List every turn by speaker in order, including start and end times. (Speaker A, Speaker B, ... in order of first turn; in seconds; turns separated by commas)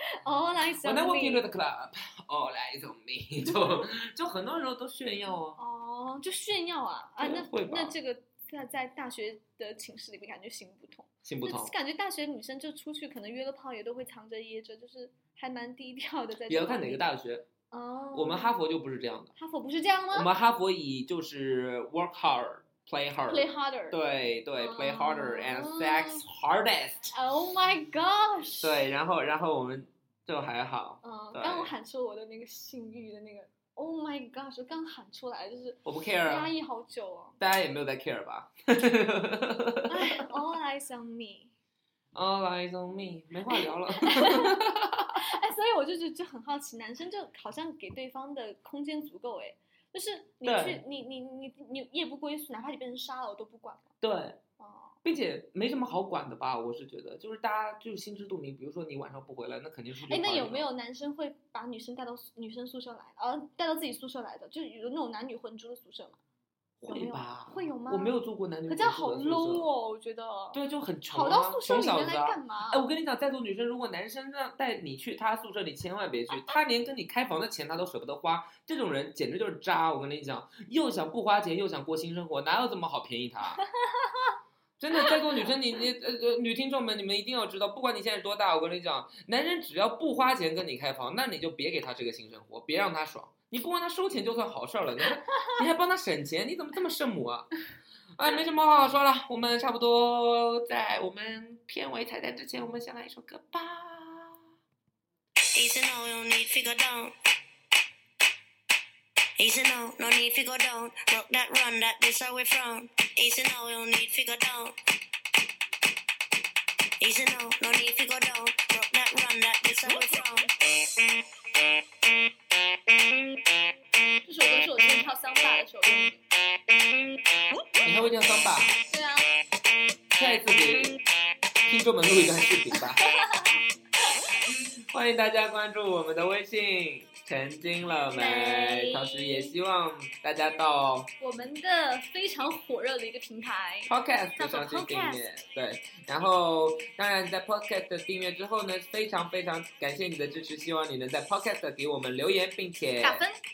Speaker A: 0.2-1.4, Speaker B: 0.8-5.6, Speaker A: 5.6-17.1, Speaker B: 7.2-8.0, Speaker B: 11.2-11.7, Speaker B: 16.5-17.5, Speaker A: 17.7-18.5, Speaker B: 18.1-19.3, Speaker A: 19.4-20.3, Speaker B: 20.1-27.1, Speaker A: 23.3-24.0, Speaker A: 24.6-26.2, Speaker A: 27.1-28.9, Speaker B: 28.6-31.7, Speaker A: 31.0-37.4, Speaker B: 35.9-36.5, Speaker B: 37.4-40.2, Speaker A: 39.9-41.5, Speaker B: 42.1-45.2, Speaker A: 43.5-44.6, Speaker A: 45.2-53.9, Speaker B: 50.4-50.8, Speaker B: 54.0-54.4, Speaker A: 54.6-55.0, Speaker B: 55.0-60.7, Speaker A: 60.1-66.2, Speaker B: 66.8-69.7, Speaker A: 66.9-72.8, Speaker B: 70.5-83.6, Speaker A: 83.8-84.4, Speaker B: 84.8-97.5, Speaker B: 98.2-104.4, Speaker C: 105.5-107.2, Speaker C: 109.4-114.8, Speaker C: 117.0-120.6, Speaker A: 124.2-126.2, Speaker C: 127.3-128.5, Speaker B: 127.8-128.8, Speaker A: 128.9-129.3, Speaker B: 130.2-131.0, Speaker B: 131.7-133.1, Speaker A: 132.8-133.6, Speaker B: 134.5-141.1, Speaker A: 138.1-139.5, Speaker A: 141.2-145.3, Speaker B: 143.9-153.2, Speaker A: 153.0-153.4